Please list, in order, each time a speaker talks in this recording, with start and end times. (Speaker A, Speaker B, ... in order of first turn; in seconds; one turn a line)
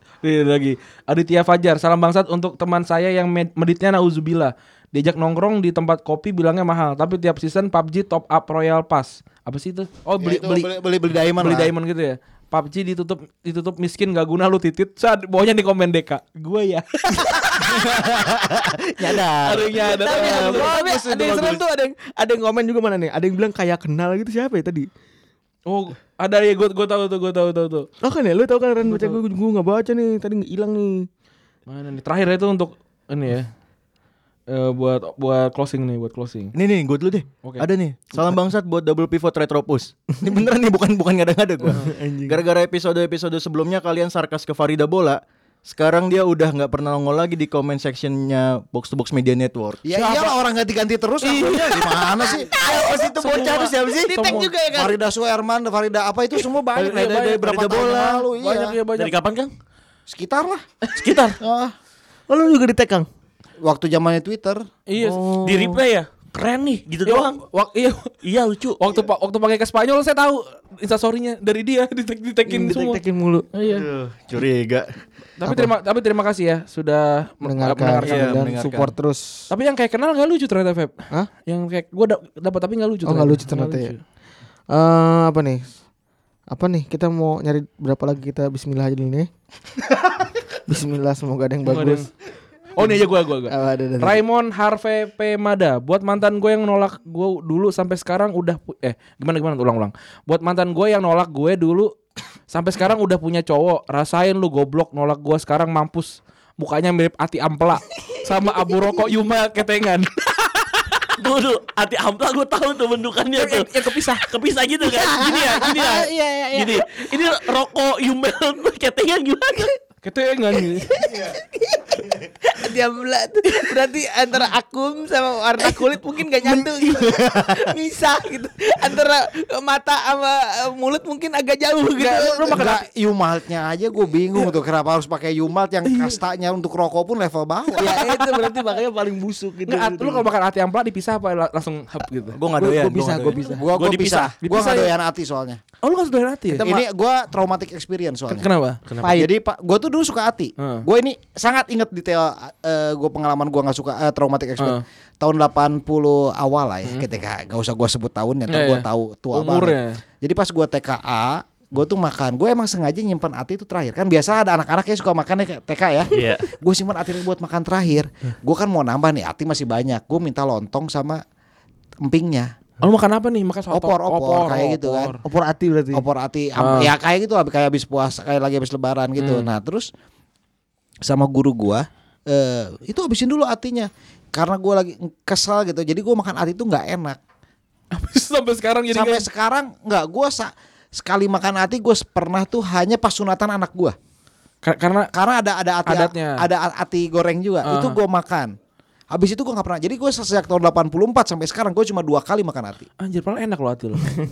Speaker A: 0.2-10.7
Speaker B: 10.2-11.7
Speaker A: 11.4-17.9
Speaker C: 17.6-19.6
Speaker D: 19.0-24.9
Speaker A: 19.4-21.6
Speaker A: 25.7-27.9
Speaker D: 28.0-31.1
Speaker A: 28.9-29.2
Speaker A: 31.7-33.5
Speaker A: 34.5-36.5
Speaker C: 36.5-49.9
Speaker D: 41.7-42.4
Speaker B: 49.9-53.7
Speaker C: 51.6-52.1
Speaker D: 52.5-55.0
Speaker A: 54.1-54.5
Speaker B: 54.7-58.8
Speaker A: 56.8-59.2
Speaker E: 58.9-59.5
Speaker B: 60.1-60.6
Speaker E: 61.0-61.4
Speaker B: 61.4-61.7
Speaker D: 62.3-63.1
Speaker B: 63.6-64.7
Speaker A: 64.9-65.2
Speaker D: 65.0-65.8
Speaker E: 65.4-67.4
Speaker A: 67.1-68.1
Speaker E: 68.2-68.8
Speaker A: 68.8-73.0
Speaker D: 72.5-73.5
Speaker A: 73.5-73.9
Speaker C: 73.6-74.9
Speaker A: 75.4-78.4
Speaker D: 75.4-75.7
Speaker D: 77.4-79.5
Speaker C: 78.0-78.9
Speaker A: 79.5-84.0
Speaker D: 83.1-83.9
Speaker D: 84.7-85.7
Speaker D: 86.5-89.3
Speaker D: 90.7-92.1
Speaker A: 91.7-92.1
Speaker A: 92.8-101.9
Speaker D: 93.5-94.2
Speaker A: 102.5-110.5
Speaker E: 111.2-113.7
Speaker A: 113.3-114.2
Speaker E: 114.2-119.7
Speaker D: 114.9-116.8
Speaker A: 120.0-120.9
Speaker D: 121.0-132.7
Speaker C: 126.7-127.6
Speaker A: 132.0-132.8
Speaker B: 132.5-137.9
Speaker D: 137.8-140.2
Speaker A: 137.9-138.7
Speaker A: 139.7-142.4
Speaker C: 142.3-143.4
Speaker D: 142.6-143.7
Speaker B: 143.6-145.6
Speaker E: 143.7-144.4
Speaker A: 144.4-144.9
Speaker A: 145.8-146.8
Speaker B: 146.5-148.5
Speaker A: 148.3-148.8
Speaker E: 148.9-149.3
Speaker D: 149.0-149.3
Speaker B: 149.0-171.2
Speaker A: 150.6-150.8
Speaker A: 158.5-160.0
Speaker E: 166.1-166.4
Speaker B: 172.0-172.5
Speaker A: 172.8-175.2
Speaker B: 173.7-175.2
Speaker D: 175.2-176.1
Speaker B: 175.9-179.9
Speaker A: 176.6-176.9
Speaker A: 179.2-179.5
Speaker B: 181.0-187.2
Speaker A: 187.9-189.3
Speaker B: 188.9-193.9
Speaker A: 194.6-195.1
Speaker B: 195.1-198.5
Speaker A: 195.9-196.4
Speaker A: 197.7-198.0
Speaker B: 199.1-202.9
Speaker A: 203.0-204.1